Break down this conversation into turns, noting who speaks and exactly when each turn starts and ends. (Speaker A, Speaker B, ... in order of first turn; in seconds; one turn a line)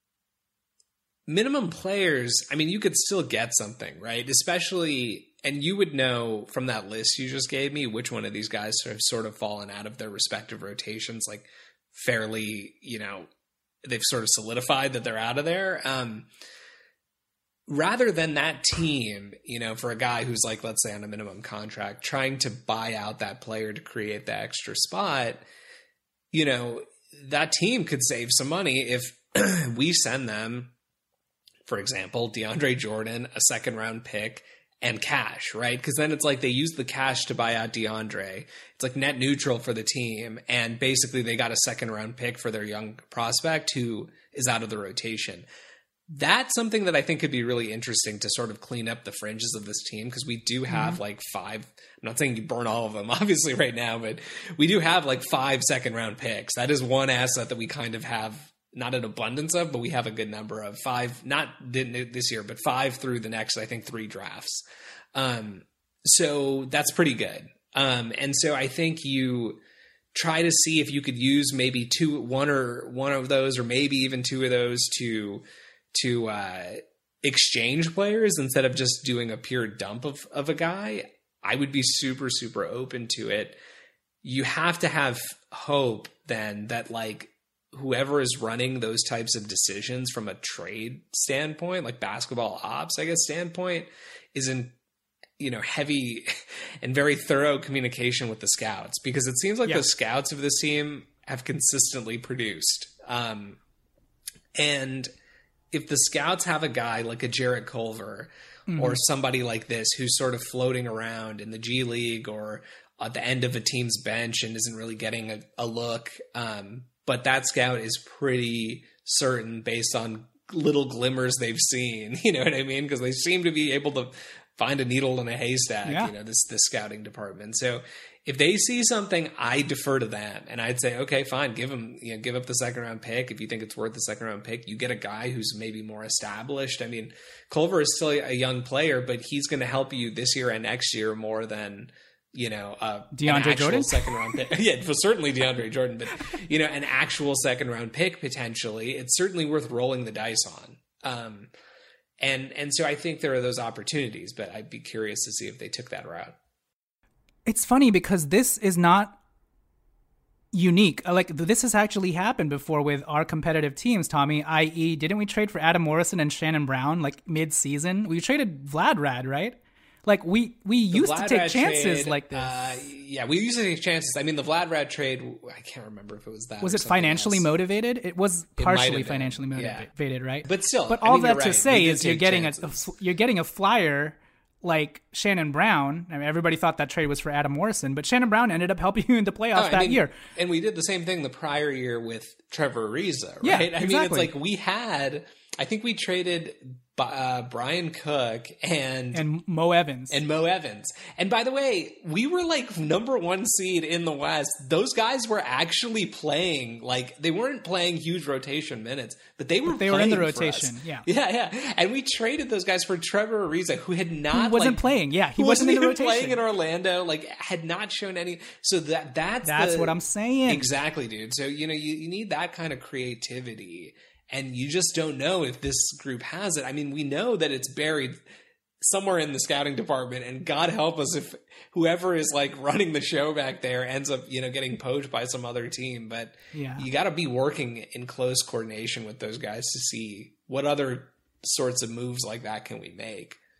Speaker A: 1.3-13.3
Speaker A: 13.8-16.3
Speaker A: 17.7-25.4
Speaker A: 26.3-30.7
Speaker A: 31.6-45.5
Speaker A: 46.1-64.6
Speaker B: 50.7-51.0
Speaker A: 65.1-69.6
Speaker A: 70.1-83.6
Speaker A: 84.2-94.7
Speaker A: 95.4-103.6
Speaker A: 104.5-105.1
Speaker A: 105.7-151.5
Speaker B: 108.7-109.0
Speaker B: 125.8-126.1
Speaker B: 143.1-144.2
Speaker A: 152.2-156.3
Speaker B: 157.4-159.2
Speaker B: 160.5-172.9
Speaker A: 170.9-177.4
Speaker B: 176.6-190.2
Speaker A: 178.6-179.9
Speaker A: 180.4-182.9
Speaker A: 189.5-199.2
Speaker B: 193.4-194.3
Speaker B: 199.1-200.2
Speaker A: 200.1-214.8
Speaker B: 209.6-211.1
Speaker B: 214.3-216.4
Speaker A: 215.3-228.2
Speaker B: 219.4-220.7
Speaker A: 228.8-243.4
Speaker B: 236.5-236.8